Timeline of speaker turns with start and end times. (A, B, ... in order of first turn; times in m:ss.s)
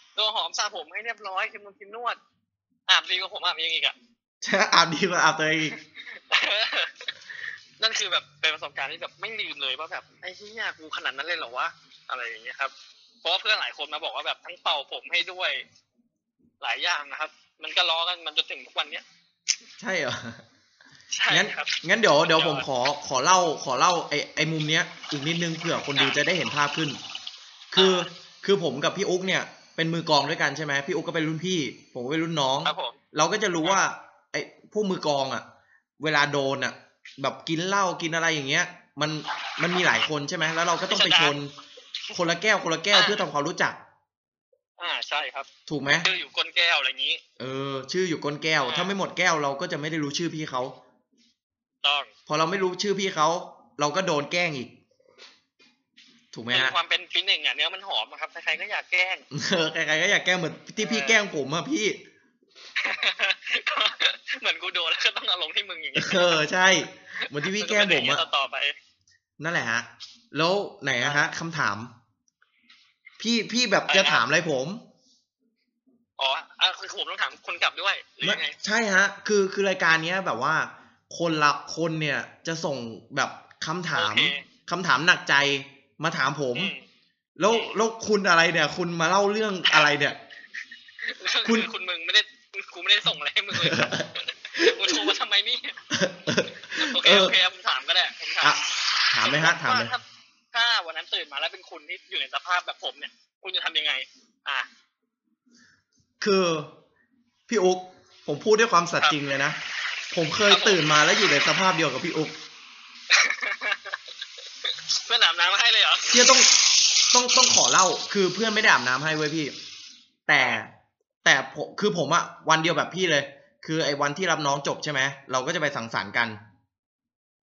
0:00.2-0:02.2 A
0:02.9-0:04.0 A
0:04.4-0:05.8 B
0:05.8-0:07.1 A
0:07.8-0:15.6 A
0:16.6-0:19.0 A
0:19.8-0:20.4 B
0:21.1-0:22.7 A
0:21.3-0:27.0 B
0:26.0-0:26.2 A
0:27.7-0:35.4 B
0:27.8-0:28.1 A
0:32.6-0:33.0 A
0:36.0-0:41.5 B
0:40.9-0:41.4 A
0:42.1-0:43.8 B
0:42.9-0:43.2 A
0:44.8-0:45.5 A
0:45.7-0:46.1 B
0:46.0-0:47.2 A
0:47.4-0:50.8 B
0:48.6-0:49.0 A
0:51.8-0:52.1 A
0:52.3-0:54.8 B
0:56.3-0:56.8 B
0:56.5-0:59.2 A
0:59.3-1:02.0 B
1:00.8-1:01.2 A
1:02.8-1:06.4 A
1:06.0-1:08.2 B
1:07.2-1:08.8 A
1:09.4-1:11.9 B
1:11.0-1:11.3 A
1:13.2-1:14.8 B
1:13.9-1:14.2 A
1:16.2-1:18.6 A
1:18.2-1:26.7 B
1:23.9-1:24.5 A
1:26.6-1:26.8 A
1:27.4-1:30.2 B
1:31.0-1:35.8 A
1:33.5-1:35.1 B
1:35.9-1:37.4 B
1:36.8-1:38.6 A
1:38.4-1:39.9 B
1:39.2-1:44.7 A
1:46.2-1:46.7 B
1:47.5-1:49.6 B
1:50.1-1:52.4 B
1:50.5-1:50.8 A
1:53.1-1:54.0 A
1:54.6-1:56.4 A
1:56.1-1:56.5 B
1:57.1-1:59.5 B
2:00.3-2:00.7 B
2:01.2-2:06.4 B